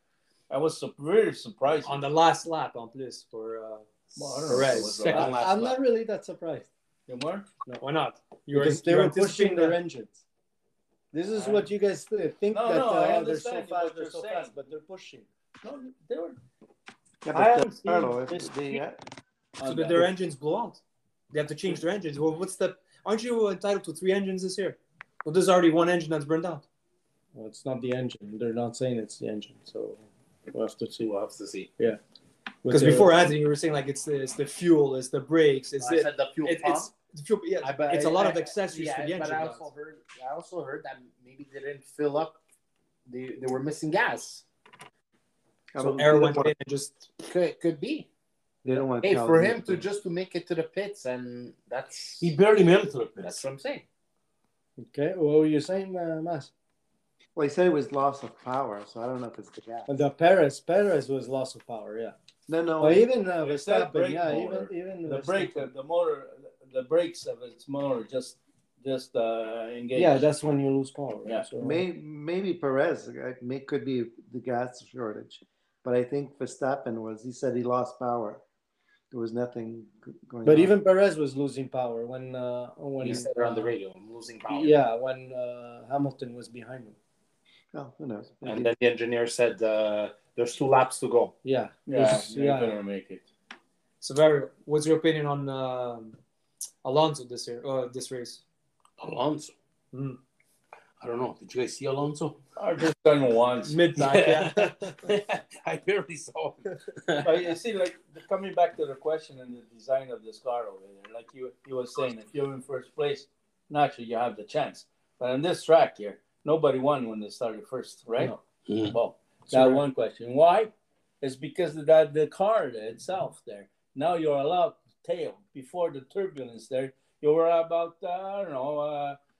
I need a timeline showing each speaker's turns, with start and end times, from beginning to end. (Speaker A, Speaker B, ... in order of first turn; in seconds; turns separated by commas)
Speaker A: 0.5-2.0, Speaker B: 1.8-3.9, Speaker A: 4.1-5.4, Speaker B: 4.5-5.4, Speaker C: 4.6-5.5, Speaker D: 5.0-6.7, Speaker E: 5.1-5.6, Speaker A: 7.1-7.5, Speaker B: 7.8-9.8, Speaker D: 8.5-10.2, Speaker D: 11.1-15.2, Speaker A: 12.5-14.6, Speaker A: 15.6-16.4, Speaker F: 17.2-19.0, Speaker A: 17.3-18.1, Speaker D: 19.6-20.1, Speaker B: 19.6-20.8, Speaker B: 21.3-26.6, Speaker D: 27.3-31.1, Speaker C: 31.0-31.7, Speaker D: 32.6-33.3, Speaker B: 32.7-39.7, Speaker C: 35.8-36.9, Speaker C: 37.6-42.4, Speaker C: 43.1-44.4, Speaker F: 45.7-46.5, Speaker B: 45.8-47.1, Speaker C: 47.2-48.1, Speaker F: 48.6-49.9, Speaker C: 49.0-52.4, Speaker E: 52.2-53.4, Speaker C: 53.2-53.8, Speaker D: 54.8-56.5, Speaker F: 57.3-59.9, Speaker D: 59.9-62.1, Speaker F: 62.5-63.1, Speaker D: 62.8-65.7, Speaker A: 63.4-70.2, Speaker D: 69.9-71.8, Speaker F: 71.6-78.4, Speaker F: 79.1-80.7, Speaker D: 80.4-83.7, Speaker C: 83.0-84.8, Speaker D: 84.5-87.0, Speaker F: 87.7-88.7, Speaker C: 88.4-91.3, Speaker D: 91.4-92.7, Speaker A: 91.9-93.2, Speaker B: 94.0-96.2, Speaker B: 96.8-98.4, Speaker E: 99.0-99.5, Speaker B: 99.9-100.2, Speaker E: 101.0-102.4, Speaker A: 102.6-103.8, Speaker B: 103.6-105.0, Speaker E: 104.0-107.3, Speaker A: 107.2-118.3, Speaker E: 118.7-119.0, Speaker A: 118.9-129.2, Speaker D: 119.5-119.8